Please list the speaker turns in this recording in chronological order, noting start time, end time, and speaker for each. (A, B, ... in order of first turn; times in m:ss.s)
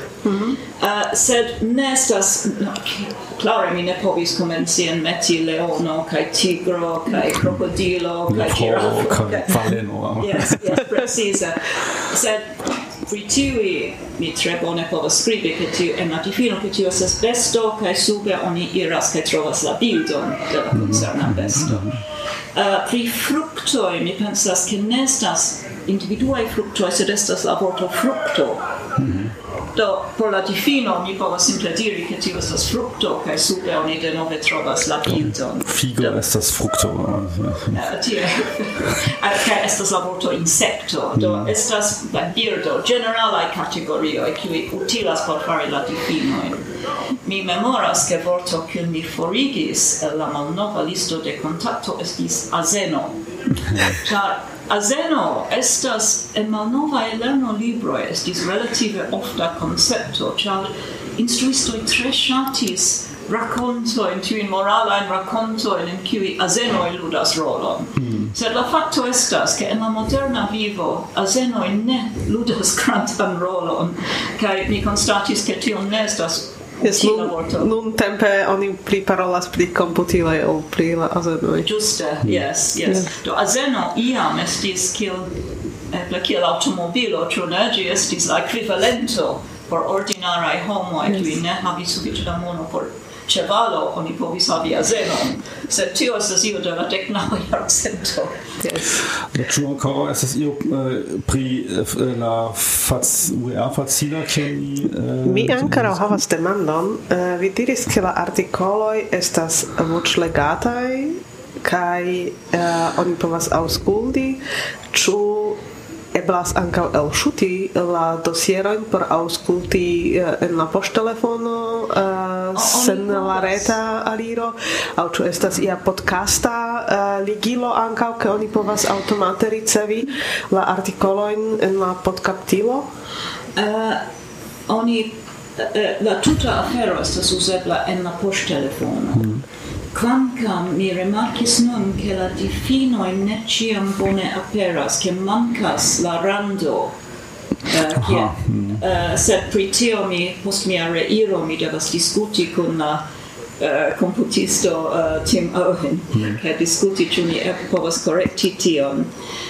0:00.2-0:00.6 A
0:00.8-0:22.0 B
0:08.3-0:10.8 C
0:20.8-0:22.0 C
0:22.5-0:28.6 B
0:29.0-0:29.3 C
0:29.8-0:36.2 B
0:35.1-0:37.8 C
0:37.7-0:46.7 B
0:41.2-0:41.5 C
0:47.2-1:17.7 B
1:08.0-1:08.3 C
1:16.8-1:21.7 A
1:21.6-1:25.3 B
1:25.9-1:38.3 B
1:38.6-1:39.0 A
1:39.3-1:46.0 C
1:45.2-1:54.4 A
1:54.9-1:55.6 A
1:56.1-2:12.9 A
2:02.6-2:03.8 B
2:13.6-2:14.0 B
2:14.7-2:19.3 B
2:19.2-2:19.4 C
2:19.9-2:26.9 B
2:27.7-2:33.0 B
2:28.0-2:28.8 C
2:33.6-2:39.1 B